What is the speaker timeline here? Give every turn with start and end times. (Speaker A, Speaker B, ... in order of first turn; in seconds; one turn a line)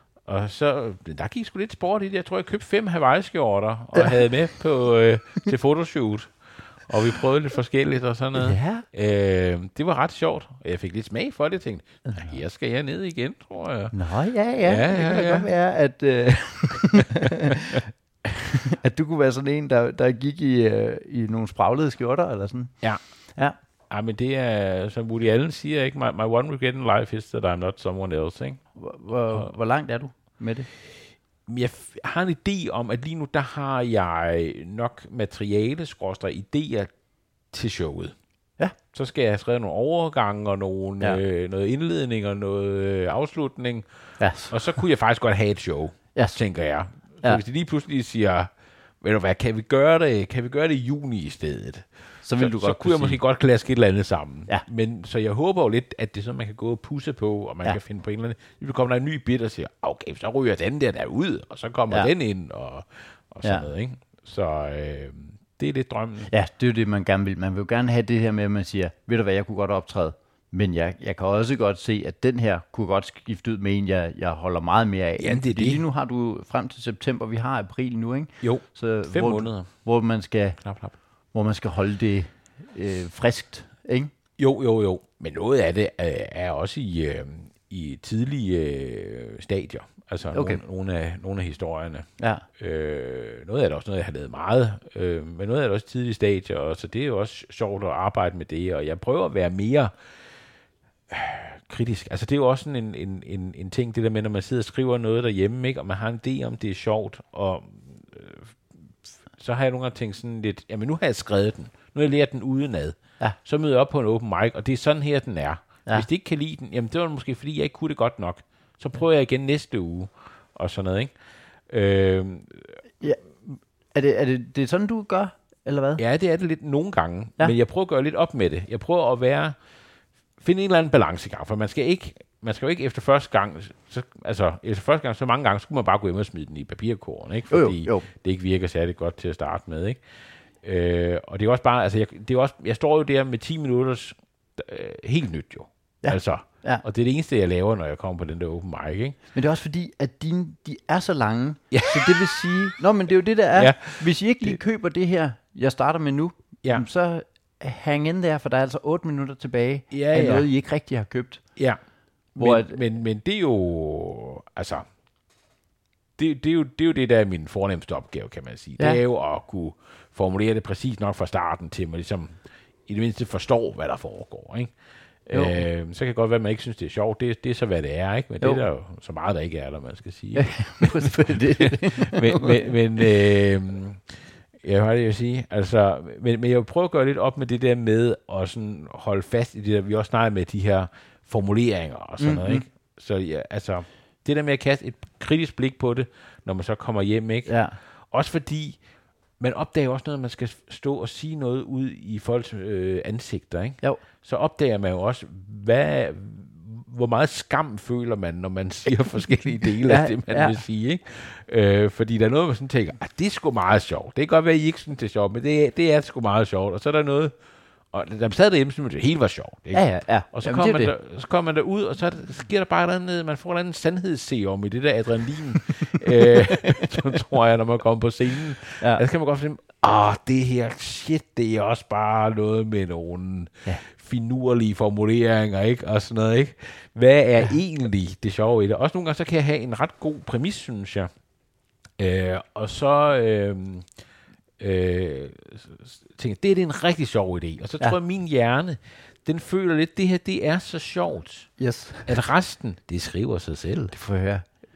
Speaker A: 0.2-13.9
Speaker B: 8.3-8.8
Speaker B: 12.1-12.3
Speaker B: 13.9-22.7
Speaker A: 14.6-15.5
Speaker A: 23.9-28.6
Speaker B: 28.7-30.7
Speaker A: 31.5-36.9
Speaker A: 37.5-38.1
Speaker A: 38.9-48.5
Speaker B: 44.2-44.8
Speaker A: 49.0-66.3
Speaker B: 52.2-53.2
Speaker B: 63.4-63.7
Speaker B: 66.3-80.6
Speaker A: 75.2-75.8
Speaker A: 78.4-79.7
Speaker A: 80.6-81.0
Speaker B: 81.3-84.1
Speaker A: 84.4-99.9
Speaker B: 90.3-90.6
Speaker B: 92.2-92.5
Speaker A: 101.1-108.6
Speaker A: 109.3-121.1
Speaker A: 121.7-122.8
Speaker B: 123.0-126.0
Speaker A: 126.0-129.6
Speaker A: 130.4-140.0
Speaker B: 137.5-138.1
Speaker A: 140.6-149.2
Speaker B: 146.0-146.8
Speaker B: 149.3-161.4
Speaker A: 151.7-152.5
Speaker A: 153.6-154.6
Speaker A: 159.9-160.5
Speaker B: 162.4-162.8
Speaker A: 162.4-164.9
Speaker A: 166.2-174.7
Speaker A: 175.3-198.8
Speaker B: 175.3-175.6
Speaker B: 180.3-182.7
Speaker B: 192.2-192.6
Speaker B: 197.4-197.8
Speaker A: 199.4-217.3
Speaker B: 209.9-210.6
Speaker A: 217.9-241.1
Speaker B: 219.7-220.9
Speaker A: 242.0-243.9
Speaker A: 244.6-251.5
Speaker B: 251.6-252.1
Speaker A: 252.1-253.9
Speaker B: 253.9-254.4